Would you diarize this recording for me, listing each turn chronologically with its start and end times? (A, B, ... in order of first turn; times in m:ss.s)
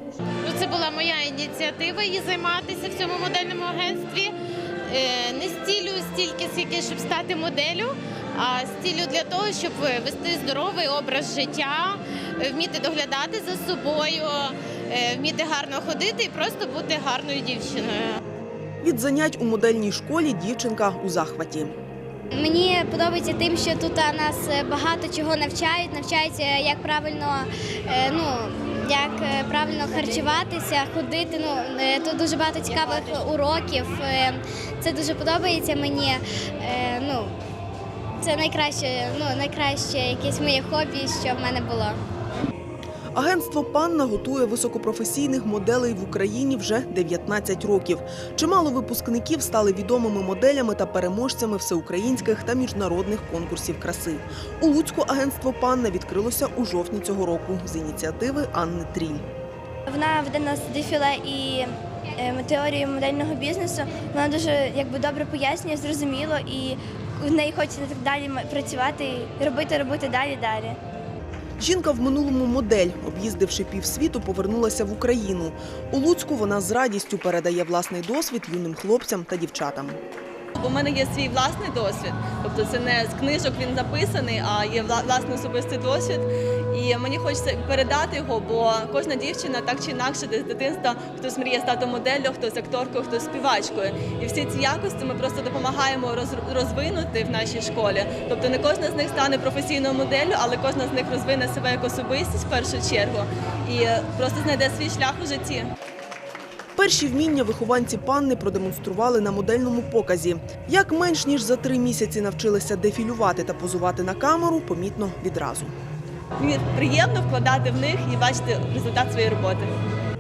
0:00.4-0:04.3 A
0:04.9-0:18.2 A
0:18.8-0:21.7 B
0:22.3-0:37.3 C
0:38.2-0:42.0 C
0:43.1-0:59.2 B
0:59.9-1:10.8 D
1:11.6-1:20.0 B
1:20.6-1:45.7 E
1:46.8-1:55.7 B
1:56.4-1:59.7 E